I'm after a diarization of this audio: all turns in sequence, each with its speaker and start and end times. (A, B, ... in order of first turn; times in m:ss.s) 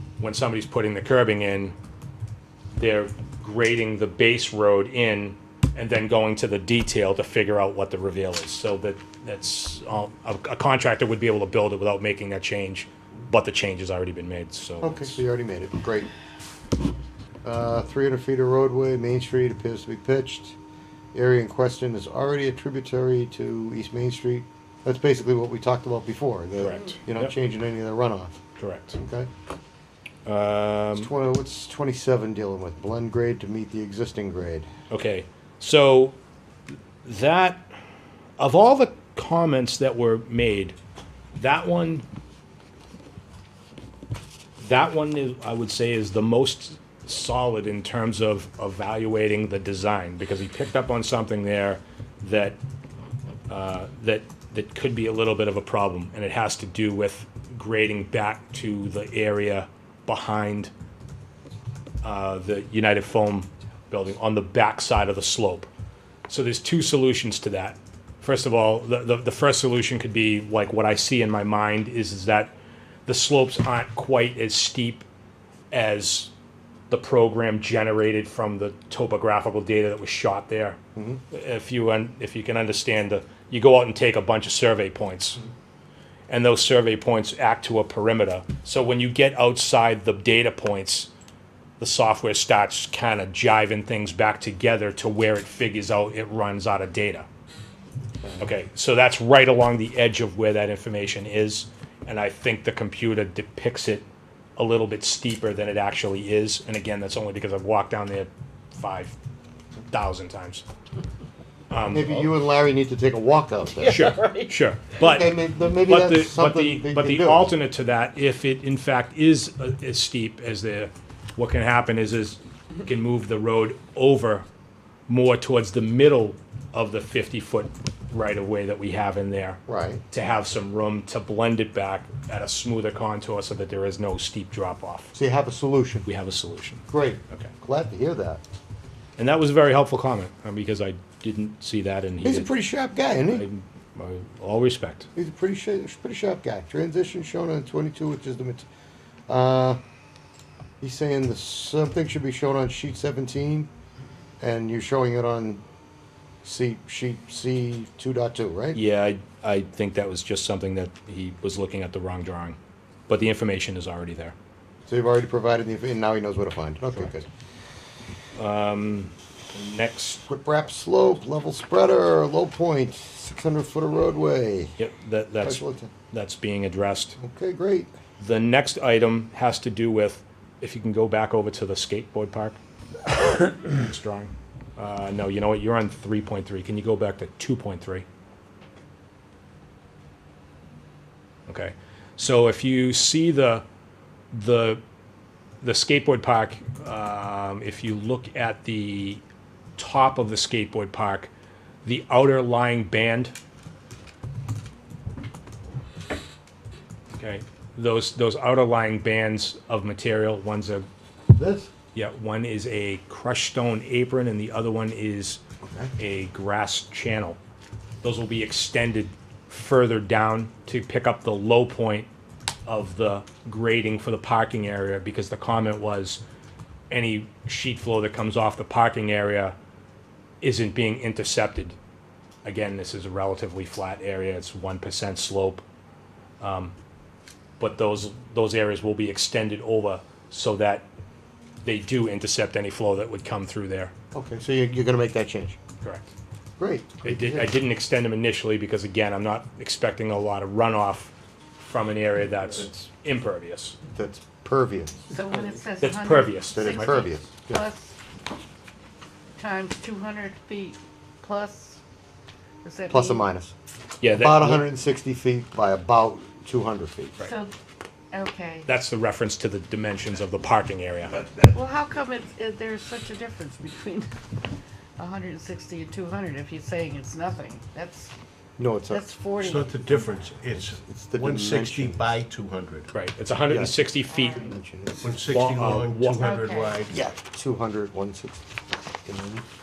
0:00.2-0:01.8 A
0:02.8-0:15.2 A
0:14.8-0:16.1 B
0:17.4-0:20.6 B
0:21.1-0:28.4 B
0:26.6-0:27.3 A
0:28.6-0:29.0 A
0:29.0-0:29.3 B
0:30.3-0:31.1 A
0:31.0-0:34.7 B
0:34.9-0:36.2 A
0:37.0-0:37.7 A
0:38.4-0:40.8 A
0:41.4-0:42.1 A
0:44.6-0:52.6 A
0:53.5-1:00.7 A
1:02.0-1:05.7 A
1:06.3-1:12.5 A
1:13.1-1:15.1 A
1:15.7-1:16.3 A
1:16.9-1:20.8 A
1:21.0-1:21.2 B
1:21.3-1:25.4 A
1:26.3-1:31.1 A
1:31.8-1:37.3 A
1:38.2-1:38.5 B
1:38.4-1:44.1 A
1:44.6-1:49.2 A
1:49.9-1:50.6 A
1:51.7-1:52.2 A
1:51.9-1:54.2 B
1:53.8-2:04.5 A
1:54.9-1:57.5 B
2:05.1-2:09.6 A
2:09.7-2:10.0 B
2:10.1-2:15.1 A
2:15.1-2:16.1 B
2:16.1-2:17.5 A
2:16.9-2:18.4 B
2:19.2-2:22.5 A
2:22.2-2:23.4 B
2:23.3-2:25.1 A
2:25.2-2:28.7 B
2:29.3-2:29.8 B
2:30.8-2:33.7 B
2:34.4-2:35.6 B
2:36.4-2:38.8 B
2:38.7-2:42.6 A
2:43.1-2:44.4 A
2:44.9-2:47.3 B
2:46.9-2:47.2 A
2:48.4-2:50.3 A
2:50.3-2:54.8 B
2:54.8-2:57.2 A
2:55.4-2:55.9 B
2:57.2-2:57.9 B
2:58.2-3:02.6 A
3:03.1-3:08.0 A
3:11.5-3:13.6 A
3:14.3-3:14.8 A
3:15.6-3:19.2 A
3:19.8-3:21.3 A
3:21.8-3:23.3 A
3:27.2-3:30.9 A
3:31.3-3:31.7 B
3:31.9-3:35.4 A
3:36.0-3:37.4 A
3:38.0-3:42.1 A
3:42.7-3:46.2 A
3:46.9-3:49.6 A
3:50.4-3:51.8 A
3:52.4-3:55.6 A
3:56.4-3:56.8 A
3:57.6-4:00.9 A
4:01.6-4:03.9 A
4:04.1-4:05.6 B
4:05.8-4:06.1 A
4:06.6-4:07.6 B
4:07.0-4:13.8 A
4:13.9-4:15.1 B
4:15.1-4:18.0 C
4:15.8-4:17.0 A
4:16.5-4:17.6 B
4:19.4-4:21.8 C
4:22.6-4:23.3 C
4:22.9-4:23.5 B
4:24.0-4:24.7 A
4:24.1-4:27.2 B
4:27.2-4:27.5 C
4:28.1-4:28.7 C
4:28.7-4:31.2 A
4:31.5-4:34.1 C
4:35.0-4:38.1 C
4:38.6-4:39.1 B
4:38.9-4:39.7 C
4:39.4-4:42.9 D
4:39.7-4:42.1 B
4:42.9-4:44.6 A
4:43.5-4:45.3 B
4:44.1-4:44.6 C
4:45.0-4:47.0 D
4:45.3-4:46.3 A
4:46.2-4:46.8 C
4:46.9-4:48.4 B
4:49.1-4:49.4 B